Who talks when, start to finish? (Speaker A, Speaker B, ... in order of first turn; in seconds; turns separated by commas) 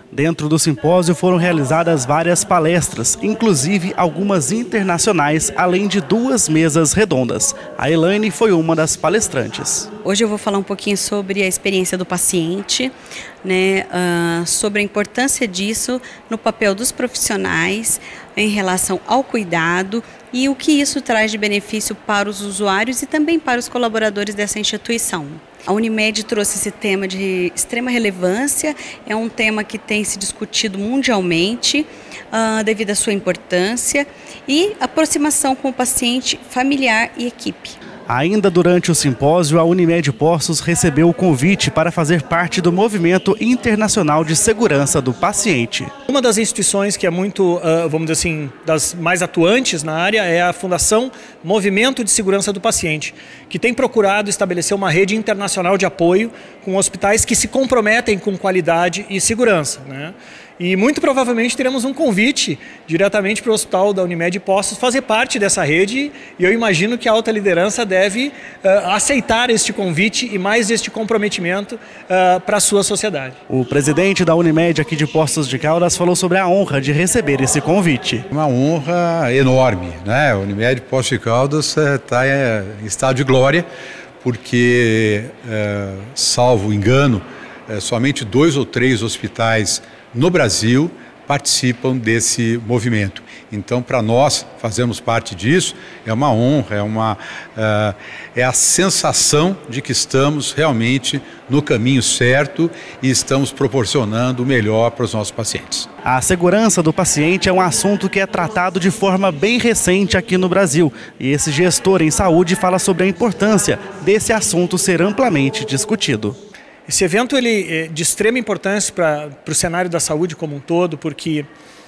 Speaker A: 0.1-9.9, Speaker B: 10.0-12.9, Speaker B: 13.4-37.8, Speaker A: 38.1-45.9, Speaker C: 46.1-73.4, Speaker A: 73.5-78.3, Speaker D: 78.3-83.7, Speaker D: 84.2-105.9, Speaker A: 106.0-116.4, Speaker C: 116.9-121.5